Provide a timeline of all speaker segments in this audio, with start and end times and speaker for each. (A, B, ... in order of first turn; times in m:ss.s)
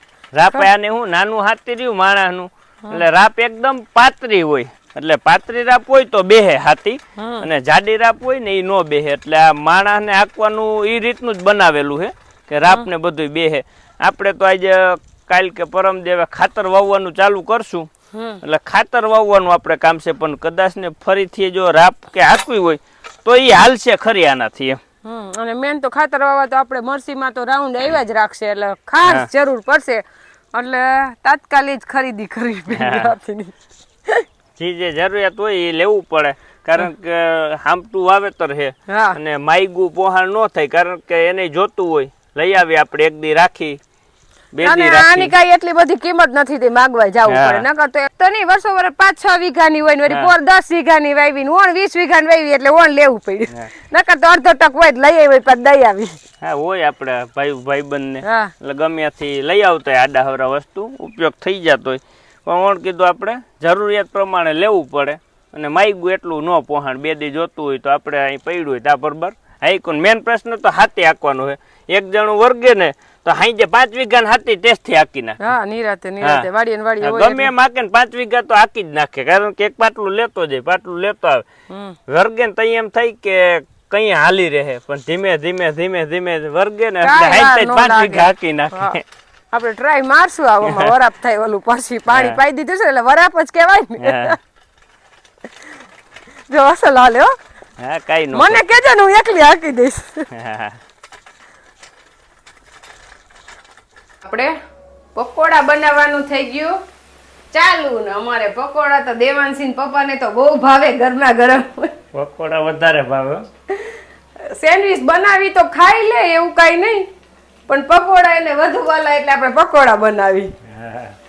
0:00.3-0:17.9 A
0:07.2-0:07.4 B
0:18.1-0:18.4 B
0:18.4-0:24.8 A
0:25.0-0:33.5 B
0:32.7-0:33.1 A
0:34.6-0:43.8 A
0:38.9-0:39.2 B
0:44.5-0:45.3 A
0:44.6-0:56.2 B
0:47.3-0:47.6 A
0:56.4-1:15.4 A
0:58.2-0:58.5 B
1:15.4-1:17.5 B
1:16.2-1:16.5 A
1:17.0-1:21.4 A
1:21.7-1:22.0 B
1:22.1-1:29.0 A
1:27.0-1:29.0 B
1:29.5-1:34.3 B
1:32.1-1:32.4 A
1:34.0-1:34.3 A
1:36.5-1:37.3 B
1:37.8-1:38.6 A
1:38.3-1:40.2 B
1:40.3-1:40.8 A
1:44.2-1:44.5 B
1:45.1-1:46.8 B
1:47.5-1:51.9 B
1:52.1-1:53.4 A
1:54.5-1:57.1 B
1:57.7-2:00.5 B
2:00.7-2:01.1 A